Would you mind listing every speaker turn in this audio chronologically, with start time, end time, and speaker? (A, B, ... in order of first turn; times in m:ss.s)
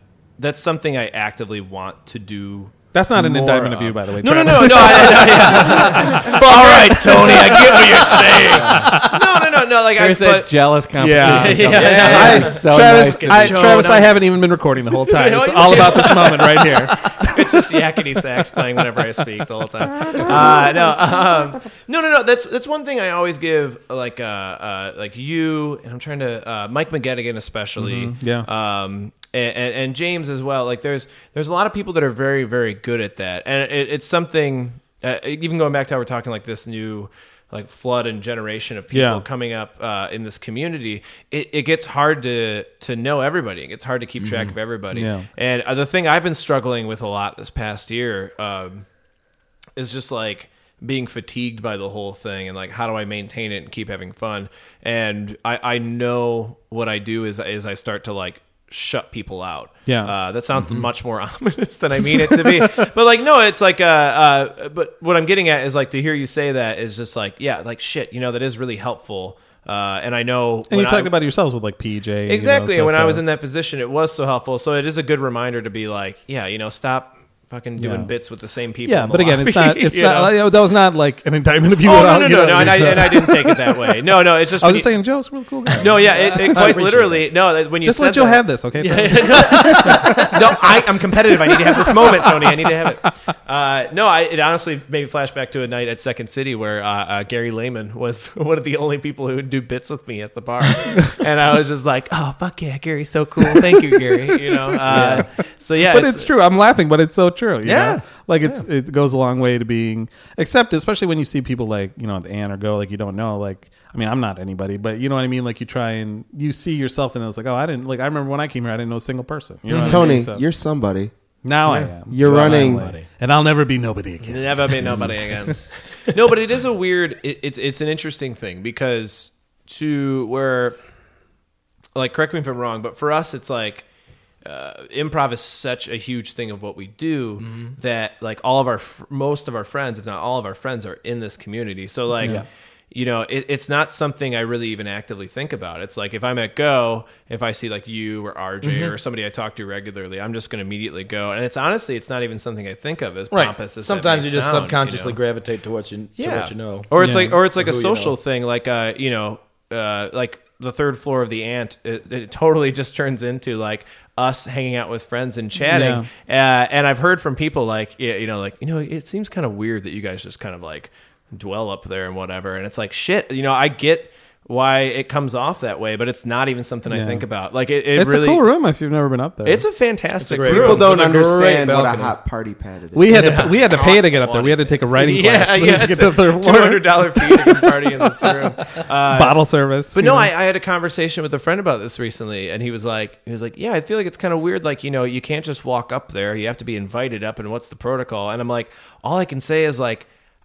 0:00.4-0:10.5 A
0:02.9-0:05.2 B
0:04.6-0:08.8 C
0:08.5-0:08.9 D
0:08.7-0:09.2 B
0:10.0-0:13.8 D
0:11.0-0:17.4 B
0:11.2-0:12.6 A
0:11.7-0:12.6 C
0:13.2-0:14.2 A
0:15.1-0:48.9 A
0:27.8-0:28.5 B
0:38.9-0:39.2 B
0:44.2-0:44.6 C
0:44.9-0:45.3 B
0:49.8-1:11.1 A
0:59.9-1:00.1 B
1:00.6-1:00.9 C
1:02.3-1:02.9 B
1:10.7-1:13.2 B
1:12.3-1:20.4 A
1:17.8-1:18.1 B
1:18.9-1:23.8 B
1:21.8-1:24.9 A
1:24.6-1:26.0 B
1:25.8-1:46.3 A
1:26.0-1:27.3 C
1:27.8-1:30.4 B
1:31.5-1:32.8 B
1:43.4-2:00.4 B
1:44.9-1:45.3 C
1:47.6-1:48.7 A
1:59.7-2:00.1 A
1:59.7-2:01.1 E
2:01.4-2:05.5 B
2:02.1-2:02.9 E
2:02.2-2:03.1 C
2:04.2-2:10.8 A
2:12.0-2:13.9 A
2:14.4-2:35.2 A
2:17.4-2:17.8 C
2:22.2-2:22.5 C
2:28.6-2:29.0 C
2:33.3-2:38.2 C
2:36.2-2:58.5 A
2:37.0-2:37.4 B
2:45.7-2:46.1 B
2:56.9-2:57.3 B
2:58.0-2:59.6 B
2:59.4-3:01.0 A
3:00.2-3:02.2 C
3:00.5-3:03.4 E
3:02.9-3:08.3 B
3:03.1-3:20.1 A
3:09.1-3:10.3 B